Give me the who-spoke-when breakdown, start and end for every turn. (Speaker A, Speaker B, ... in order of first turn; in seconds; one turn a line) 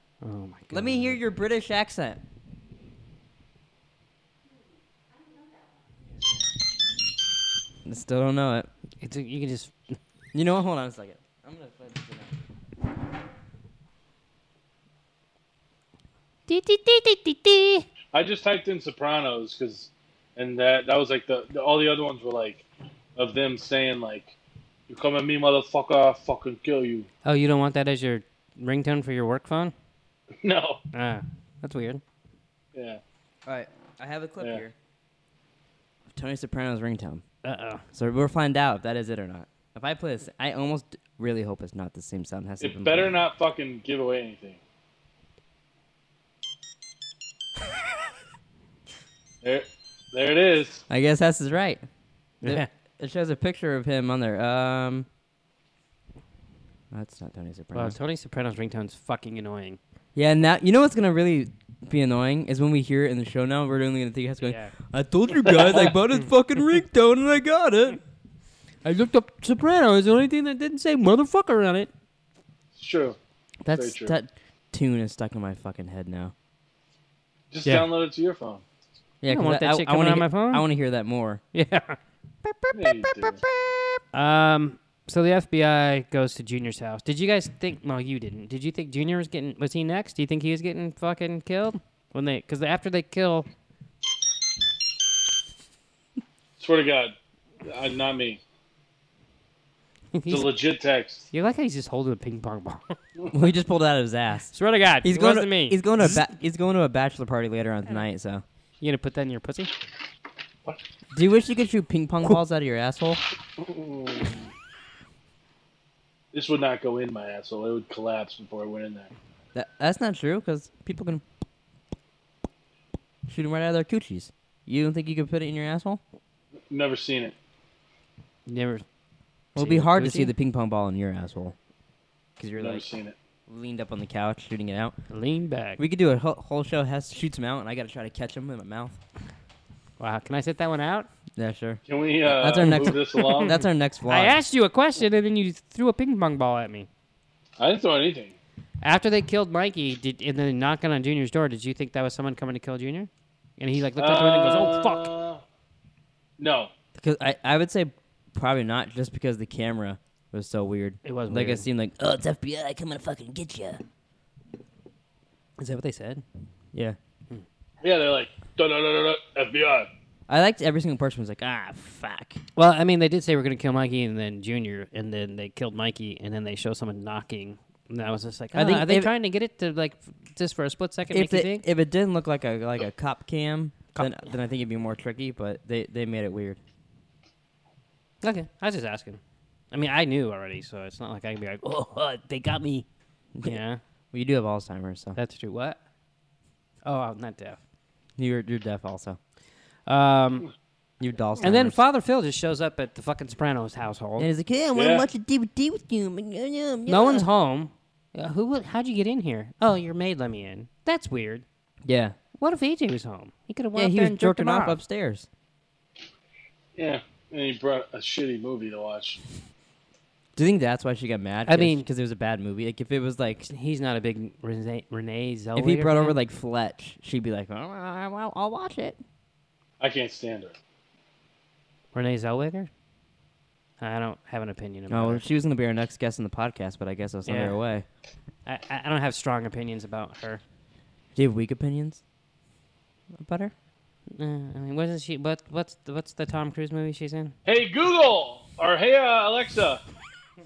Speaker A: 0.2-1.2
Speaker B: 0.7-2.2
Speaker B: 7.8-8.7
Speaker A: 9.0-10.0
Speaker B: 10.3-12.3
Speaker A: 16.5-17.9
Speaker C: 18.1-22.6
Speaker C: 23.1-24.3
Speaker C: 24.9-27.1
Speaker A: 27.2-29.7
Speaker C: 30.4-30.8
Speaker A: 30.9-32.0
Speaker C: 32.7-33.0
Speaker B: 33.5-34.7
Speaker B: 36.1-37.2
Speaker A: 37.4-37.8
Speaker B: 37.9-43.1
Speaker C: 42.6-44.6
Speaker C: 49.4-50.8
Speaker B: 50.9-51.9
Speaker A: 52.4-52.7
Speaker B: 52.4-55.1
Speaker B: 56.9-58.0
Speaker A: 57.7-59.8
Speaker B: 60.1-68.0
Speaker A: 64.4-64.7
Speaker A: 68.8-71.9
Speaker C: 72.8-73.2
Speaker B: 73.6-76.3
Speaker C: 73.7-74.1
Speaker C: 77.5-78.6
Speaker B: 79.2-81.4
Speaker A: 79.3-80.7
Speaker A: 81.5-82.0
Speaker C: 82.7-83.4
Speaker A: 84.1-93.5
Speaker C: 96.6-98.4
Speaker A: 100.1-100.5
Speaker C: 100.3-101.3
Speaker A: 101.3-103.0
Speaker B: 103.3-108.4
Speaker A: 104.5-106.2
Speaker A: 108.8-109.7
Speaker B: 111.1-113.2
Speaker C: 113.6-114.4
Speaker C: 116.3-119.1
Speaker B: 119.5-121.2
Speaker B: 123.3-126.0
Speaker C: 126.7-127.3
Speaker A: 128.4-128.8
Speaker B: 129.5-131.5
Speaker A: 129.6-130.3
Speaker B: 132.4-132.8
Speaker C: 132.6-133.1
Speaker B: 133.5-134.9
Speaker A: 135.1-135.8
Speaker B: 135.8-139.0
Speaker A: 140.0-141.1
Speaker B: 141.4-144.4
Speaker C: 141.9-143.6
Speaker A: 144.1-146.9
Speaker C: 147.6-148.3
Speaker A: 148.8-155.1
Speaker C: 154.0-155.4
Speaker C: 156.4-156.7
Speaker B: 156.9-163.8
Speaker A: 161.0-161.7
Speaker A: 165.6-166.2
Speaker C: 167.8-169.9
Speaker B: 170.3-172.4
Speaker A: 172.6-181.7
Speaker B: 178.5-179.1
Speaker B: 181.1-186.6
Speaker A: 188.2-189.2
Speaker A: 189.7-192.8
Speaker B: 193.3-193.6
Speaker A: 193.4-193.8
Speaker B: 194.1-195.2
Speaker A: 195.1-195.8
Speaker A: 196.8-197.6
Speaker B: 198.2-199.2
Speaker A: 199.8-200.5
Speaker B: 201.0-201.8
Speaker A: 201.4-204.3
Speaker B: 204.2-207.2
Speaker C: 204.7-205.1
Speaker A: 206.8-211.4
Speaker B: 211.8-212.2
Speaker A: 212.4-214.8
Speaker B: 213.7-215.3
Speaker C: 216.8-219.2
Speaker B: 220.3-223.4
Speaker A: 221.4-221.9
Speaker A: 223.4-226.2
Speaker B: 225.6-229.0
Speaker C: 229.8-230.6
Speaker A: 231.9-232.7
Speaker A: 233.8-235.2
Speaker B: 234.9-237.8
Speaker A: 237.2-237.6
Speaker A: 238.4-240.4
Speaker B: 241.1-242.0
Speaker B: 243.1-243.5
Speaker A: 244.1-247.3
Speaker C: 247.4-249.8